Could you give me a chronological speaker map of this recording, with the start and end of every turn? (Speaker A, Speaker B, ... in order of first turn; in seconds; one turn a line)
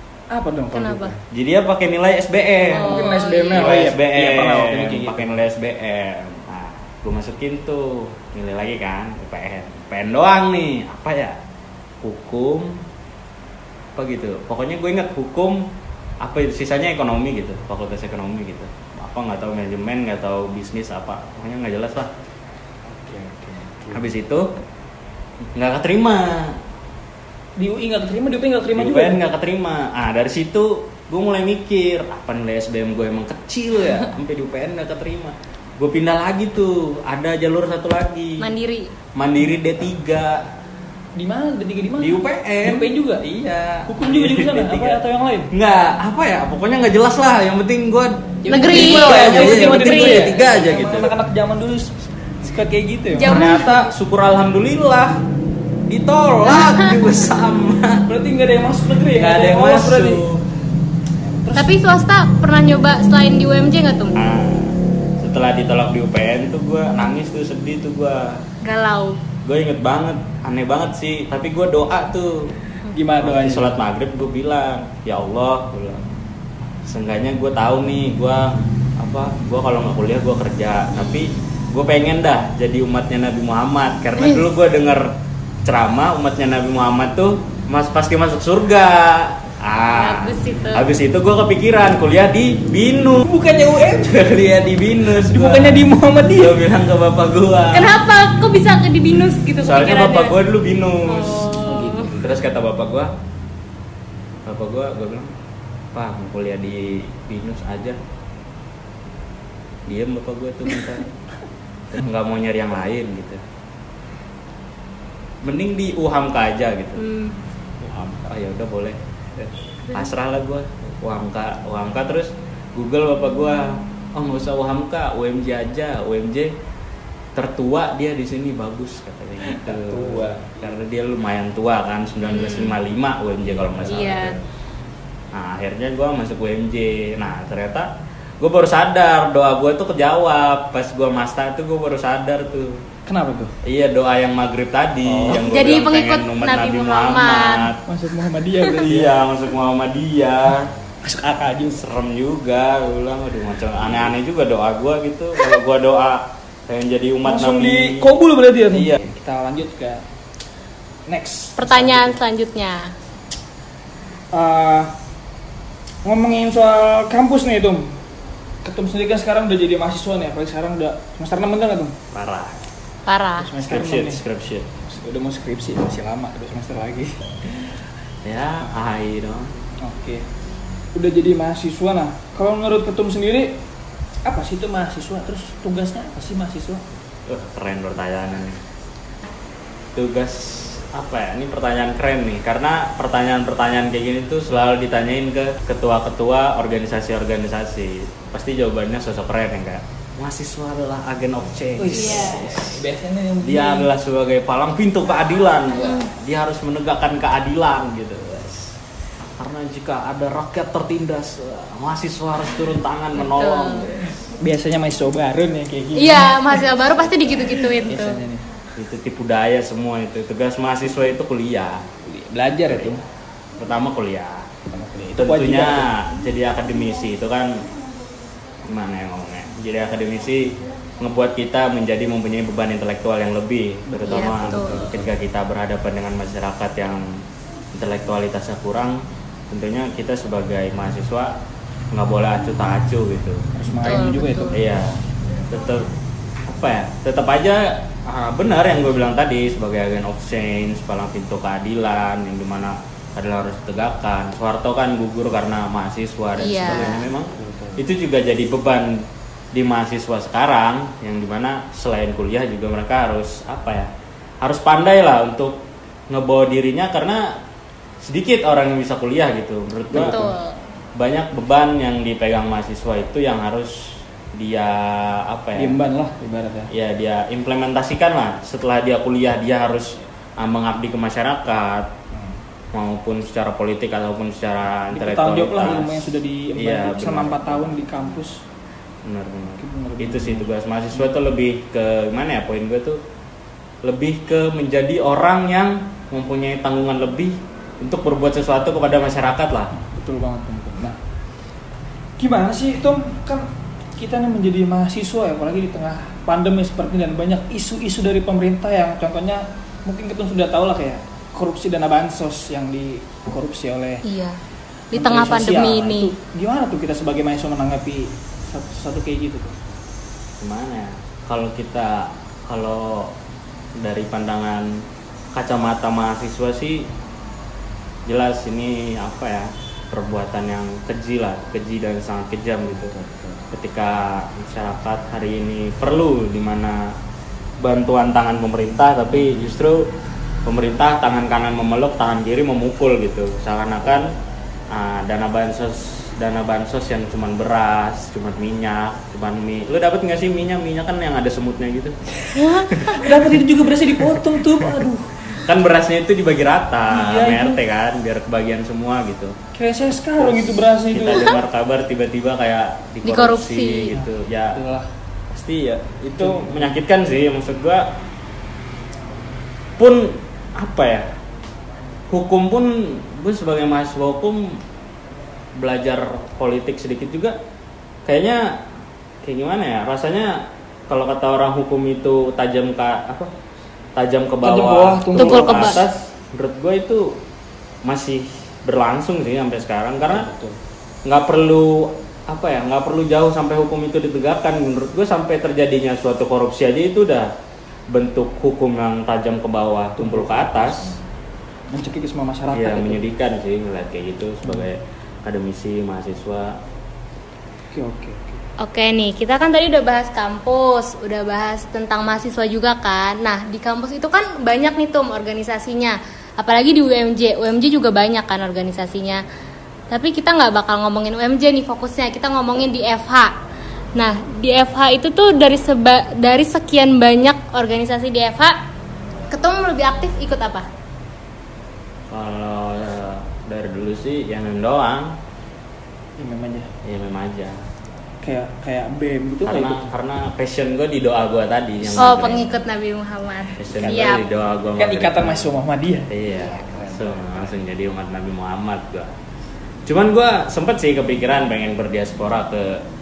Speaker A: 0.3-1.2
Speaker B: 0.7-1.1
Speaker C: 1.3-11.4
Speaker B: 2.7-3.8
Speaker A: 2.8-5.4
Speaker C: 12.0-12.8
Speaker C: 14.0-15.7
Speaker C: 16.2-22.1
Speaker A: 22.9-24.1
Speaker C: 23.9-24.5
Speaker C: 25.5-26.6
Speaker A: 27.6-29.2
Speaker C: 28.7-38.5
Speaker B: 38.4-38.9
Speaker C: 39.1-40.4
Speaker A: 41.2-45.5
Speaker C: 42.0-42.9
Speaker C: 43.6-51.1
Speaker A: 48.5-53.6
Speaker B: 48.5-50.4
Speaker B: 53.1-53.8
Speaker C: 53.2-55.2
Speaker C: 55.9-58.0
Speaker A: 58.1-60.2
Speaker C: 59.1-60.4
Speaker A: 61.2-61.8
Speaker B: 61.5-64.2
Speaker C: 64.2-68.4
Speaker B: 68.6-69.2
Speaker C: 69.4-72.5
Speaker A: 72.9-73.8
Speaker C: 73.2-76.0
Speaker C: 76.8-93.3
Speaker B: 89.9-90.9
Speaker A: 93.2-94.5
Speaker C: 93.9-98.0
Speaker A: 95.0-96.6
Speaker B: 97.7-100.3
Speaker C: 99.6-101.5
Speaker B: 101.0-102.1
Speaker A: 101.7-102.2
Speaker C: 102.1-103.1
Speaker C: 104.5-105.3
Speaker C: 105.9-108.0
Speaker C: 109.9-111.1
Speaker C: 111.9-113.4
Speaker C: 115.4-117.1
Speaker B: 117.0-117.4
Speaker C: 117.9-119.0
Speaker C: 119.9-126.6
Speaker C: 127.3-134.4
Speaker A: 129.4-130.5
Speaker A: 133.6-133.9
Speaker B: 133.9-134.3
Speaker C: 135.3-137.9
Speaker C: 138.4-142.8
Speaker A: 143.1-143.6
Speaker C: 143.6-147.8
Speaker A: 145.1-145.5
Speaker B: 145.3-147.7
Speaker A: 147.9-149.2
Speaker C: 148.8-150.7
Speaker A: 151.0-151.8
Speaker C: 151.6-158.1
Speaker A: 157.2-160.0
Speaker C: 158.7-159.0
Speaker A: 161.1-162.2
Speaker B: 161.6-162.9
Speaker A: 164.3-164.9
Speaker A: 166.1-168.0
Speaker A: 168.6-172.0
Speaker C: 172.1-172.6
Speaker B: 173.1-173.5
Speaker A: 173.4-174.2
Speaker C: 173.6-174.7
Speaker A: 174.8-177.8
Speaker C: 178.2-179.6
Speaker A: 179.8-180.3
Speaker A: 180.9-183.6
Speaker A: 184.2-186.8
Speaker C: 187.3-188.6
Speaker C: 189.9-202.9
Speaker A: 201.8-203.9
Speaker B: 201.9-202.5
Speaker C: 203.4-208.8
Speaker B: 205.8-206.1
Speaker C: 209.4-214.2
Speaker B: 213.2-213.9
Speaker A: 214.4-218.5
Speaker B: 215.9-218.2
Speaker C: 218.8-221.9
Speaker A: 222.0-223.0
Speaker C: 222.7-223.0
Speaker C: 223.6-224.5
Speaker A: 224.7-225.9
Speaker C: 225.2-227.7
Speaker C: 228.7-237.2
Speaker A: 233.9-235.1
Speaker B: 234.1-234.9
Speaker C: 237.8-241.3
Speaker C: 241.9-243.5
Speaker A: 243.6-244.6
Speaker B: 243.8-244.6
Speaker C: 244.5-245.9
Speaker C: 246.5-263.9
Speaker B: 256.4-257.1
Speaker A: 257.4-257.8
Speaker C: 264.4-267.4
Speaker C: 268.0-270.2
Speaker A: 269.9-270.3
Speaker B: 269.9-270.6
Speaker C: 270.9-275.8
Speaker A: 275.6-276.7
Speaker C: 276.7-281.9
Speaker C: 282.7-288.2
Speaker A: 284.9-288.4
Speaker C: 289.0-293.0
Speaker A: 289.6-290.5
Speaker C: 293.8-299.7
Speaker A: 299.7-301.0
Speaker A: 302.2-314.0
Speaker B: 314.0-314.4
Speaker B: 314.9-316.1
Speaker A: 315.0-319.6
Speaker C: 320.4-323.1
Speaker C: 323.8-326.9
Speaker C: 328.1-336.9
Speaker A: 332.9-333.4
Speaker C: 337.6-339.9
Speaker C: 340.4-344.2
Speaker C: 344.7-352.0
Speaker B: 352.4-353.0
Speaker C: 352.5-353.4
Speaker A: 352.9-355.3
Speaker C: 354.0-359.4
Speaker A: 356.9-357.6
Speaker A: 359.5-361.4
Speaker C: 360.2-364.6
Speaker B: 363.0-363.9
Speaker A: 363.9-364.9
Speaker C: 365.3-367.9
Speaker A: 366.2-366.8
Speaker C: 369.8-371.1
Speaker C: 372.1-374.6
Speaker C: 375.6-377.4
Speaker C: 378.1-378.7
Speaker C: 379.2-383.3
Speaker C: 384.0-387.2
Speaker A: 384.4-385.8
Speaker B: 385.2-385.8
Speaker C: 387.9-390.3
Speaker A: 390.0-390.6
Speaker C: 391.1-397.3
Speaker C: 397.9-401.0
Speaker A: 400.0-401.1
Speaker A: 401.7-403.0
Speaker C: 402.5-406.6
Speaker A: 407.7-408.5
Speaker B: 408.6-419.2
Speaker B: 419.9-423.4
Speaker B: 424.0-428.6
Speaker B: 429.3-430.7
Speaker C: 432.1-435.2
Speaker A: 436.2-436.7
Speaker C: 436.8-437.6
Speaker A: 438.2-439.9
Speaker C: 439.4-442.6
Speaker B: 442.0-444.3
Speaker C: 443.6-445.5
Speaker A: 444.8-447.5
Speaker C: 446.1-449.1
Speaker C: 449.9-452.8